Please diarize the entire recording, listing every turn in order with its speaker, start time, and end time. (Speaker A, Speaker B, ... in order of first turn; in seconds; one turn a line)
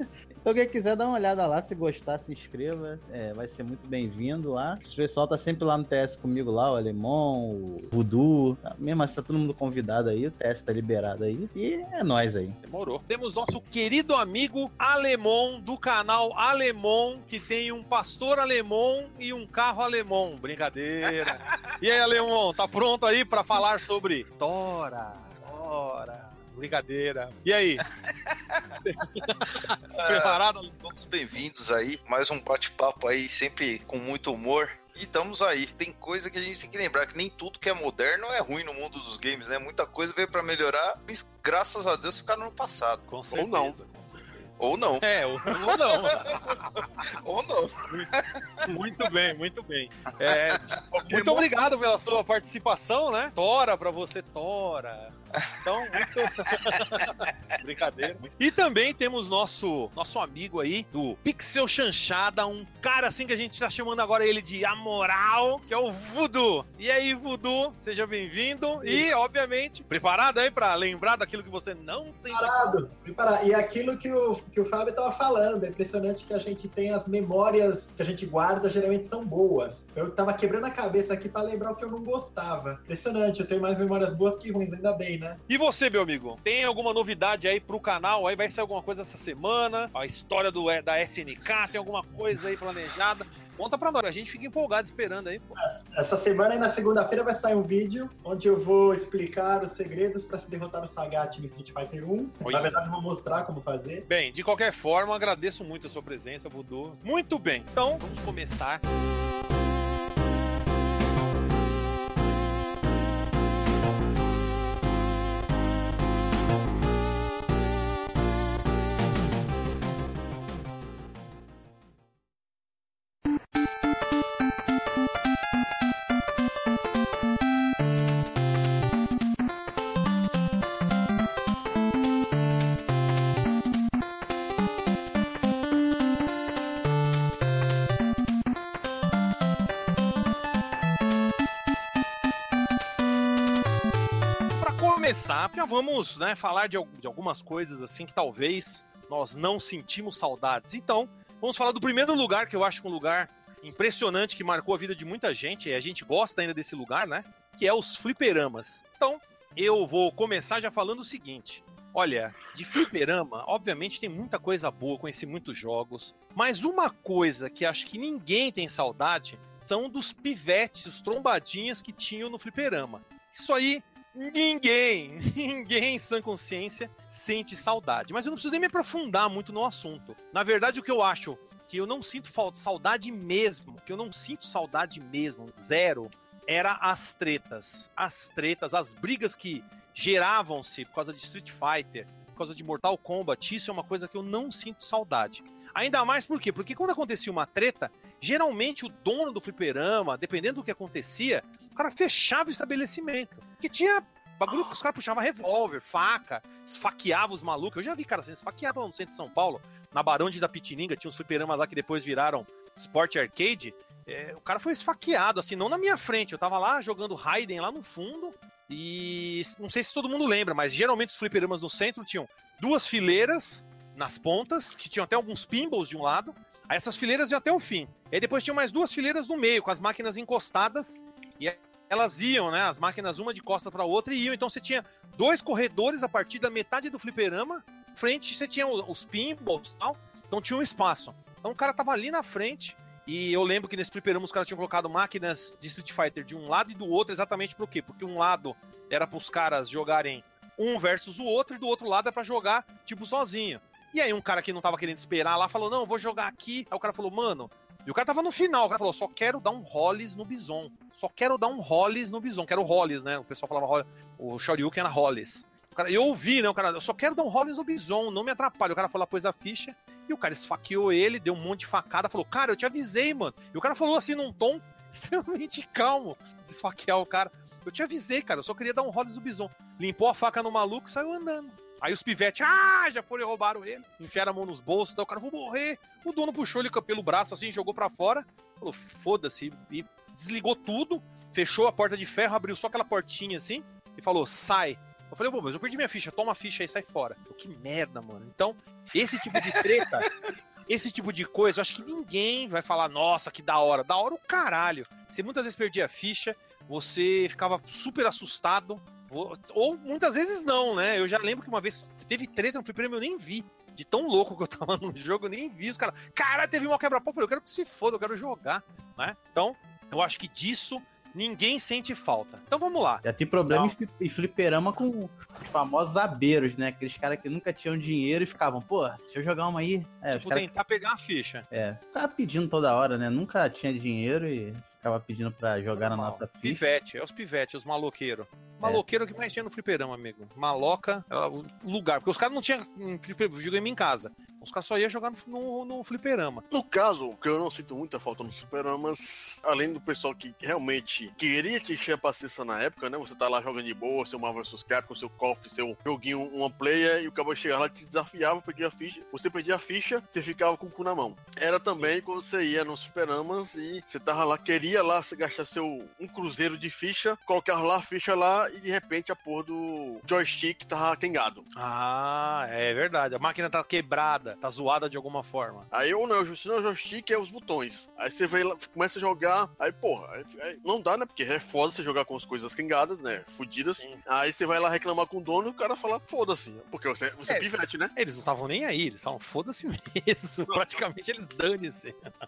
Speaker A: 0.4-12.6
Speaker B: 12.6-27.8
Speaker C: 28.0-29.3
Speaker B: 28.8-30.9
Speaker C: 29.9-43.0
Speaker B: 43.1-46.9
Speaker D: 43.3-43.8
Speaker C: 44.6-48.7
Speaker B: 48.7-72.8
Speaker D: 50.9-51.5
Speaker E: 72.3-85.4
Speaker B: 85.5-95.6
Speaker E: 95.6-104.0
Speaker B: 102.4-102.8
Speaker B: 104.1-108.8
Speaker B: 144.6-300.1
Speaker B: 300.7-323.8
Speaker A: 323.0-330.5
Speaker B: 330.1-331.5
Speaker A: 331.5-336.6
Speaker B: 335.7-346.4
Speaker D: 346.5-371.5
Speaker B: 371.6-375.7
Speaker D: 375.7-387.9
Speaker B: 387.3-392.1